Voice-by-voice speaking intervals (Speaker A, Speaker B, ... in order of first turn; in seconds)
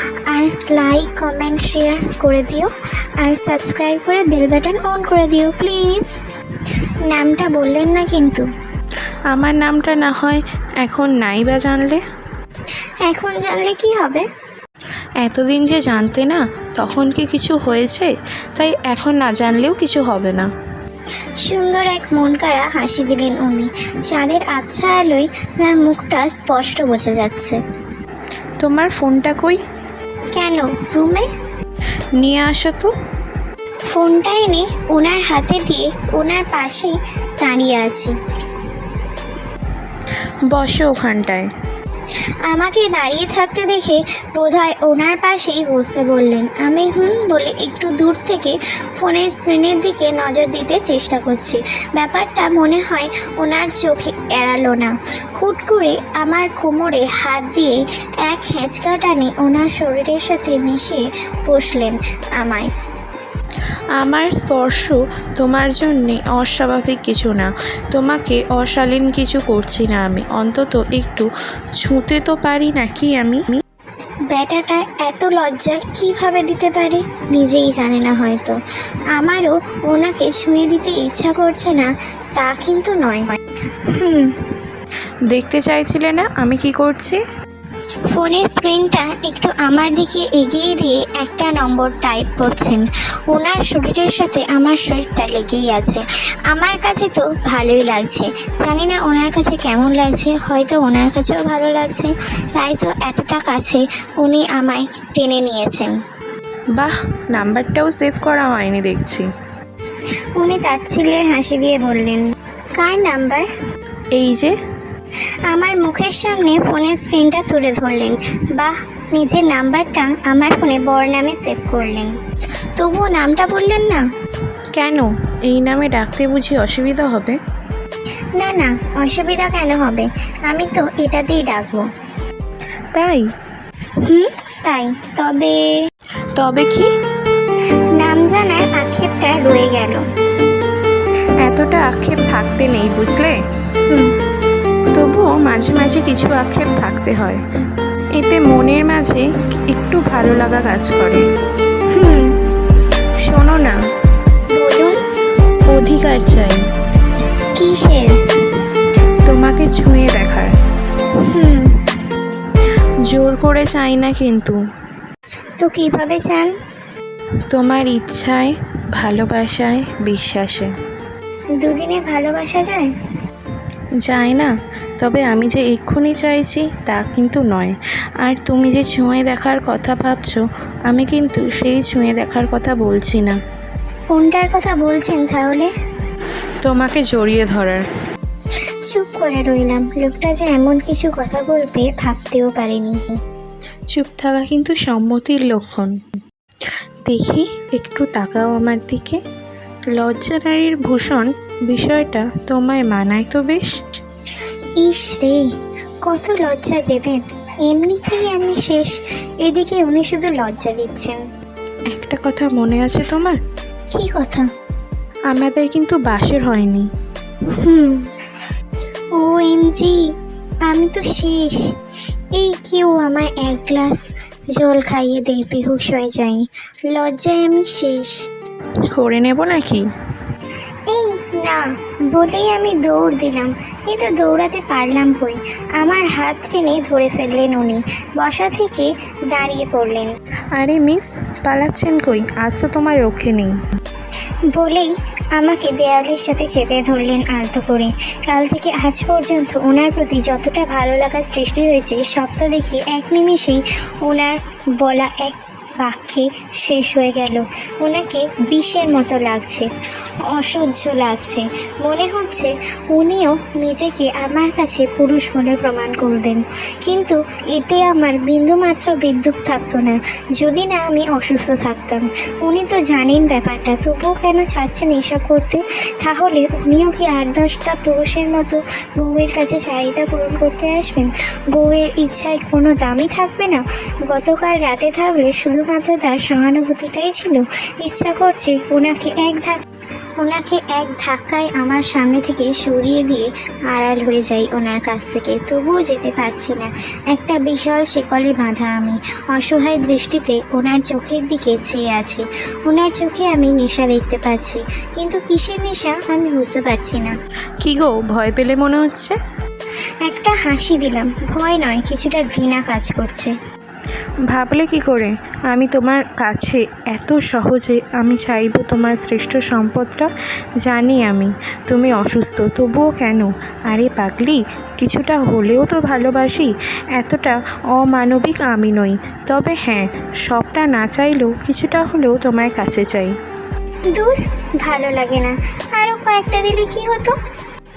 Speaker A: 0.3-6.2, 7.1-8.5, 13.1-14.3, 21.4-27.6, 30.3-31.3, 33.9-38.1, 42.5-62.7, 74.3-78.6, 79.1-84.5, 88.1-105.9, 110.3-112.2, 112.8-113.5, 115.5-122.1, 122.8-124.0, 128.3-131.9, 134.0-135.8, 138.0-140.1, 151.9-152.4, 154.5-155.0, 157.5-158.2, 161.2-161.8, 165.6-166.5, 171.6-172.9, 184.1-185.7, 188.8-193.2, 204.8-205.5, 206.0-211.2, 213.9-214.5, 217.5-218.1, 219.1-220.1, 220.7-221.7, 222.3-228.3, 230.9-240.1, 244.5-259.7, 260.3-289.6, 290.2-307.1, 310.0-313.3, 333.9-337.1
Speaker B: 9.3-12.0, 15.2-20.5, 28.6-29.6, 32.2-32.9, 40.5-41.5, 64.0-73.6, 85.3-87.2, 106.7-109.3, 114.1-114.5, 124.7-127.4, 132.9-133.3, 136.3-136.9, 141.4-143.4, 144.9-147.4, 148.1-151.2, 153.2-153.8, 155.7-156.6, 159.2-160.5, 163.1-164.6, 167.5-170.7, 174.0-183.4, 186.6-187.8, 193.9-196.0, 197.1-199.2, 199.9-204.0, 211.9-213.4, 215.3-216.9, 228.9-229.9, 240.5-243.6, 307.6-309.2, 314.3-320.1, 320.6-333.1